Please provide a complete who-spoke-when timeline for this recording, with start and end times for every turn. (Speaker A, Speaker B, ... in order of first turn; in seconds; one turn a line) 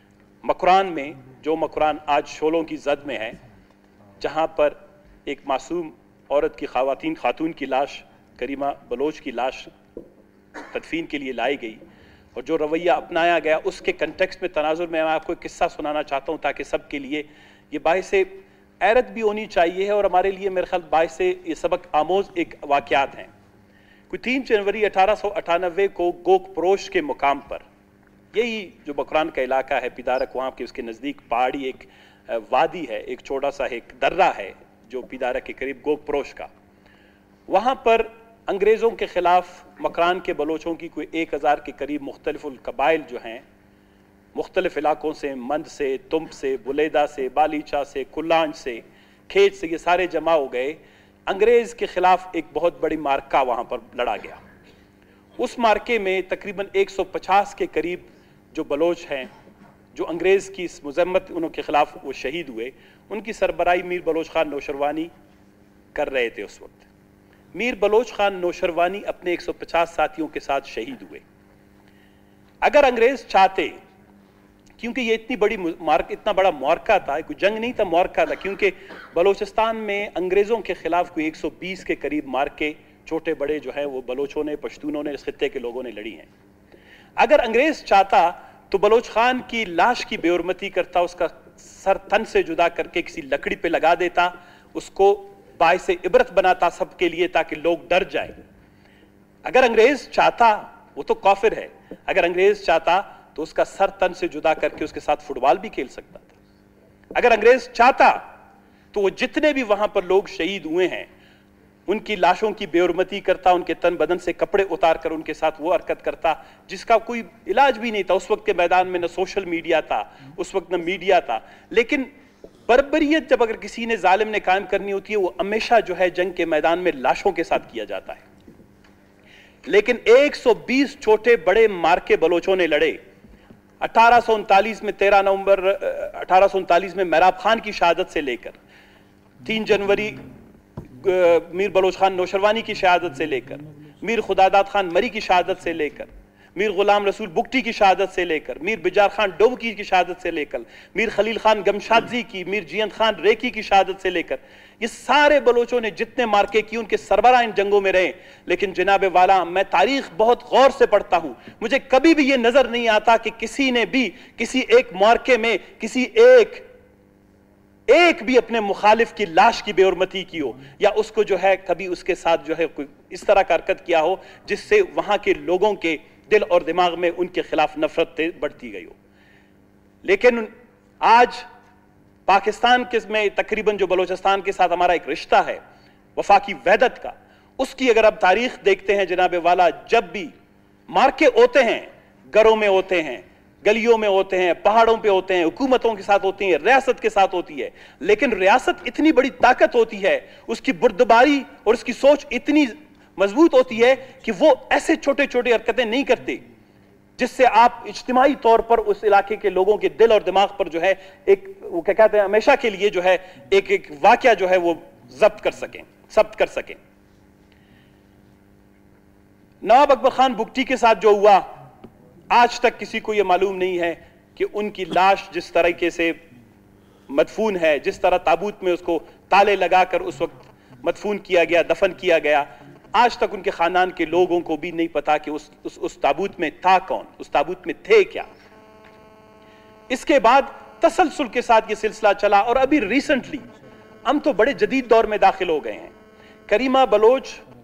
Speaker A: 0.4-3.4
Speaker A: 4.2-9.7
Speaker A: 10.7-11.8
Speaker A: 12.3-23.3
Speaker A: 24.1-27.6
Speaker A: 28.3-36.5
Speaker A: 37.5-43.5
Speaker A: 44.4-54.4
Speaker A: 55.4-59.3
Speaker A: 59.9-65.1
Speaker A: 66.0-66.9
Speaker A: 67.5-71.2
Speaker A: 72.6-73.8
Speaker A: 74.8-86.3
Speaker A: 87.2-98.4
Speaker A: 99.5-106.3
Speaker A: 107.2-108.2
Speaker A: 108.9-111.1
Speaker A: 111.9-122.1
Speaker A: 122.7-128.2
Speaker A: 129.7-133.0
Speaker A: 133.8-138.6
Speaker A: 139.4-140.2
Speaker A: 140.9-166.7
Speaker A: 167.9-178.9
Speaker A: 180.0-180.5
Speaker A: 181.0-181.5
Speaker A: 182.3-185.6
Speaker A: 186.2-190.3
Speaker A: 190.9-206.4
Speaker A: 207.2-216.8
Speaker A: 219.6-221.5
Speaker A: 222.3-226.2
Speaker A: 227.1-238.3
Speaker A: 239.9-243.4
Speaker A: 244.1-245.9
Speaker A: 246.5-247.4